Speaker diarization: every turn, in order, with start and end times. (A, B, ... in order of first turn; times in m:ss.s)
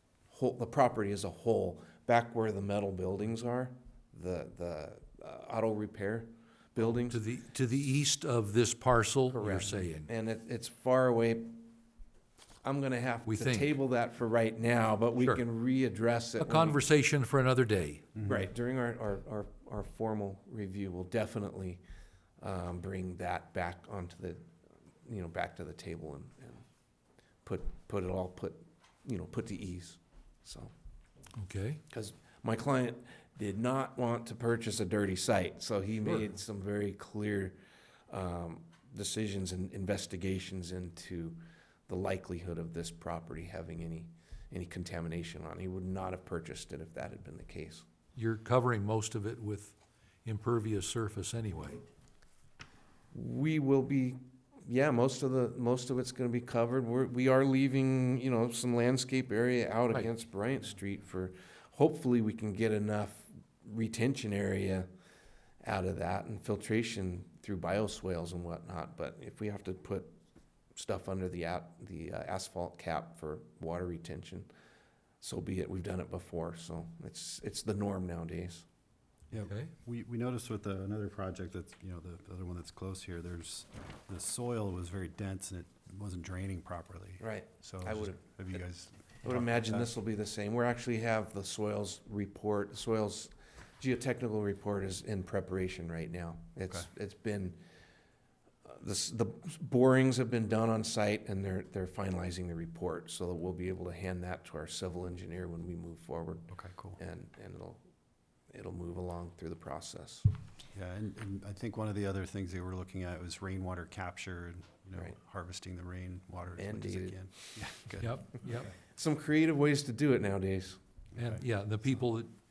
0:00.3-0:07.2 A
0:07.0-0:10.1 B
0:09.3-0:11.6 A
0:12.6-0:16.8 A
0:13.3-0:13.7 B
0:16.4-0:18.1 B
0:18.2-0:18.5 C
0:18.2-0:21.8 A
0:22.4-0:24.4 A
0:25.0-0:26.6 A
0:27.4-0:30.7 A
0:31.4-0:31.8 B
0:31.9-0:37.6 A
0:38.1-0:47.8 A
0:48.2-0:51.8 B
0:53.1-1:04.9 A
1:05.6-1:10.1 A
1:10.8-1:14.5 A
1:15.2-1:18.7 A
1:19.3-1:29.9 C
1:19.4-1:19.7 B
1:27.2-1:28.6 A
1:29.2-1:37.6 A
1:38.7-1:47.8 A
1:46.5-1:47.0 C
1:48.5-1:50.3 A
1:50.7-1:58.2 C
1:56.6-1:57.2 A
1:58.0-1:58.7 B
1:58.9-2:00.8 A
2:01.2-2:02.3 B
2:01.2-2:01.4 C